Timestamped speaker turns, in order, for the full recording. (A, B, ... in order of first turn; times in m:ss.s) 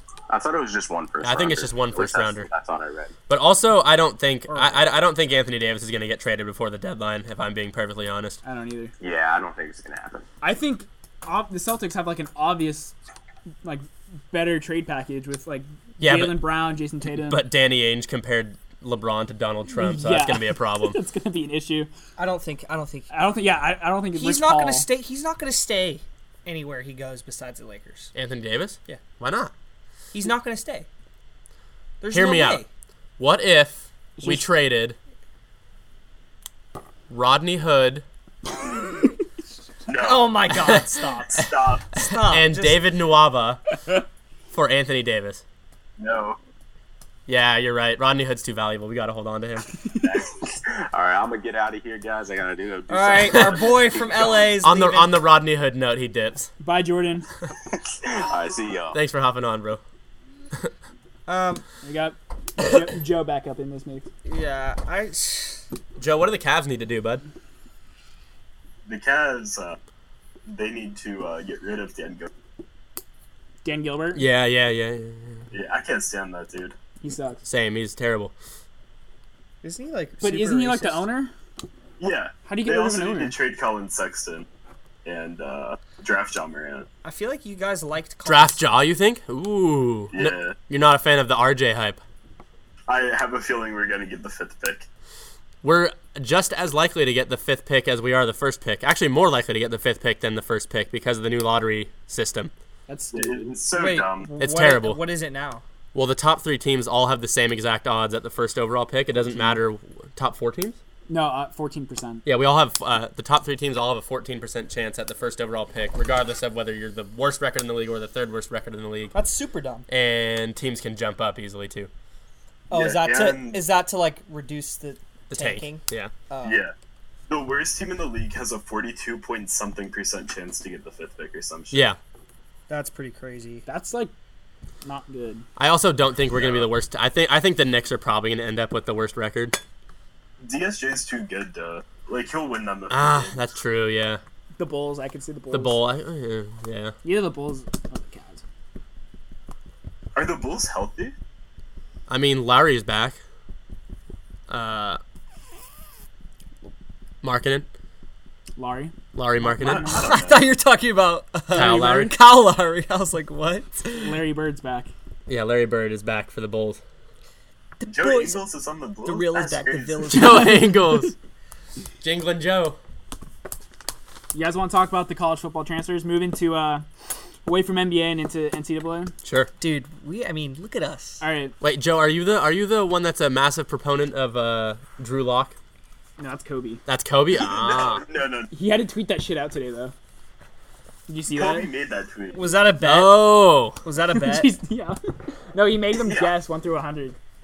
0:00.3-0:03.1 A
0:01.2-0:02.5 B
0:03.3-0:08.4 B
0:04.5-0:04.8 C
0:08.4-0:08.9 D
0:09.0-0:10.2 A
0:10.4-0:13.0 D
0:13.6-0:17.4 D
0:16.0-0:16.5 B
0:17.2-0:21.0 B
0:19.7-0:21.9 D
0:22.2-0:23.1 C
0:23.1-0:24.9 D
0:24.2-0:28.1 C
0:28.2-0:29.5 B
0:30.1-0:30.9 C
0:32.0-0:32.7 C
0:32.1-0:32.6 B
0:33.2-0:35.0 B
0:37.1-0:38.0 B
0:39.9-0:41.9 E
0:40.0-0:41.4 C
0:40.5-0:43.6 B
0:42.0-0:42.8 C
0:44.5-0:45.4 B
0:46.0-0:46.4 E
0:47.3-0:49.7 B
0:49.9-0:50.6 E
0:50.6-0:54.5 A
0:52.9-0:55.1 C
0:54.6-0:56.5 B
0:56.6-0:57.3 D
0:57.9-0:59.0 A
0:58.9-0:59.8 B
1:01.3-1:01.6 C
1:01.8-1:04.1 D
1:04.2-1:05.6 C
1:06.0-1:07.2 B
1:08.9-1:09.8 E
1:10.5-1:12.3 E
1:13.6-1:14.2 D
1:14.1-1:15.5 B
1:15.5-1:16.8 E
1:17.0-1:17.4 D
1:17.5-1:18.3 B
1:19.6-1:21.1 C
1:20.2-1:21.3 D
1:22.0-1:24.5 E
1:22.5-1:23.4 D
1:25.0-1:26.9 E
1:27.0-1:28.6 C
1:28.3-1:32.0 B
1:30.1-1:30.6 E
1:32.9-1:34.9 E
1:35.6-1:42.5 B
1:42.9-1:43.5 D
1:43.1-1:44.3 E
1:43.8-1:45.6 C
1:44.4-1:45.0 B
1:45.9-1:50.8 B
1:51.1-1:52.2 D
1:52.3-1:59.2 B
1:59.1-1:59.9 C
1:59.9-2:01.9 B
2:02.7-2:06.6 C
2:02.7-2:03.6 E
2:05.3-2:06.1 B
2:06.4-2:06.7 E
2:07.3-2:11.9 E
2:11.7-2:12.0 B
2:12.7-2:13.7 C
2:13.7-2:14.1 D
2:14.8-2:15.5 D
2:15.6-2:19.6 B
2:16.4-2:16.7 E
2:20.4-2:23.4 E
2:22.9-2:24.2 B
2:24.6-2:25.8 D
2:25.5-2:27.0 B
2:27.0-2:28.4 D
2:30.2-2:31.1 E
2:32.1-2:33.2 B
2:34.5-2:35.0 B
2:37.2-2:37.7 B
2:38.6-2:40.2 D
2:39.2-2:40.0 B
2:39.6-2:40.5 E
2:39.9-2:44.2 C
2:41.5-2:42.2 B
2:43.9-2:44.9 D
2:45.3-2:46.8 B
2:47.8-2:48.4 C
2:47.9-2:50.4 E
2:49.0-2:50.7 C
2:50.1-2:51.1 B
2:52.0-2:52.8 B
2:54.3-2:56.8 D
2:57.4-2:59.1 D
2:59.2-2:59.5 B
2:59.6-3:01.2 C
3:01.2-3:01.6 D
3:01.6-3:05.6 B
3:06.2-3:06.8 D
3:06.9-3:08.0 B
3:07.3-3:08.5 E
3:08.5-3:09.9 D
3:11.1-3:11.7 D
3:11.3-3:12.6 E
3:12.3-3:14.6 C
3:12.8-3:13.8 B
3:14.1-3:17.2 D
3:16.0-3:16.3 E